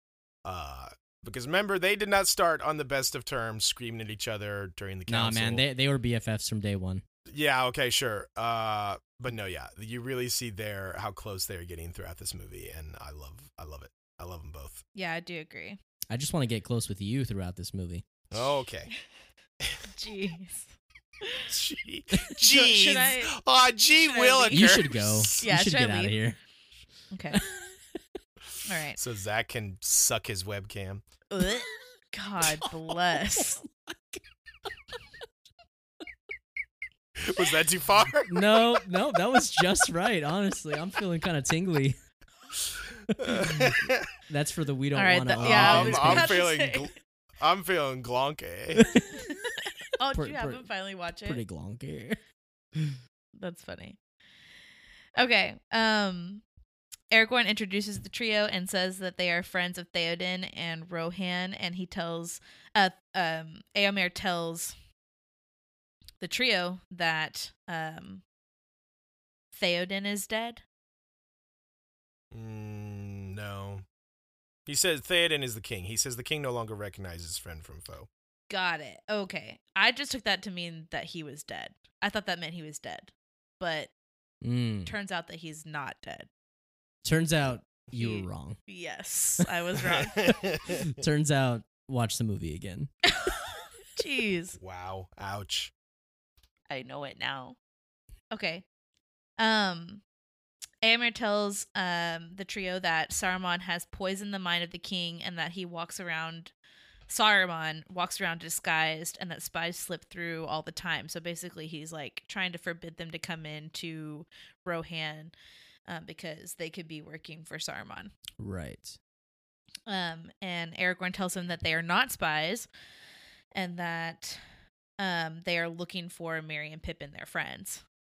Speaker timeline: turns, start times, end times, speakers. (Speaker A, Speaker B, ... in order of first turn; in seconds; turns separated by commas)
Speaker A: 0.4-5.6, Speaker B: 5.1-7.0, Speaker A: 7.3-14.8, Speaker C: 14.9-15.8, Speaker B: 16.1-18.0, Speaker A: 18.3-18.9, Speaker C: 19.9-21.5, Speaker A: 21.5-25.4, Speaker C: 22.4-23.3, Speaker C: 23.9-24.8, Speaker B: 24.5-26.4, Speaker C: 25.4-26.2, Speaker C: 27.1-27.4, Speaker B: 27.3-27.7, Speaker C: 28.6-29.0, Speaker A: 28.9-31.0, Speaker C: 31.3-33.6, Speaker B: 33.3-34.2, Speaker A: 37.2-38.7, Speaker B: 38.3-42.0, Speaker A: 43.2-44.1, Speaker B: 43.2-46.4, Speaker C: 45.0-46.9, Speaker A: 45.4-48.9, Speaker B: 48.8-49.6, Speaker C: 49.1-51.4, Speaker B: 50.1-50.7, Speaker B: 51.2-52.2, Speaker C: 53.4-54.0, Speaker C: 55.2-56.4, Speaker C: 57.1-64.7, Speaker C: 66.2-68.2, Speaker C: 69.5-70.6, Speaker A: 72.3-73.8, Speaker A: 74.7-78.1, Speaker C: 78.5-83.9, Speaker B: 84.4-84.9, Speaker C: 84.8-86.3, Speaker B: 87.0-88.6, Speaker C: 87.9-90.4, Speaker A: 89.9-90.9, Speaker B: 90.8-92.9, Speaker C: 93.1-94.6, Speaker A: 94.6-95.7, Speaker C: 96.7-97.6, Speaker C: 98.3-98.6, Speaker C: 99.4-100.0, Speaker C: 100.8-106.5, Speaker C: 107.1-115.3, Speaker C: 115.9-118.1, Speaker B: 118.4-119.0, Speaker C: 119.9-122.7, Speaker C: 123.5-124.4, Speaker C: 125.0-127.8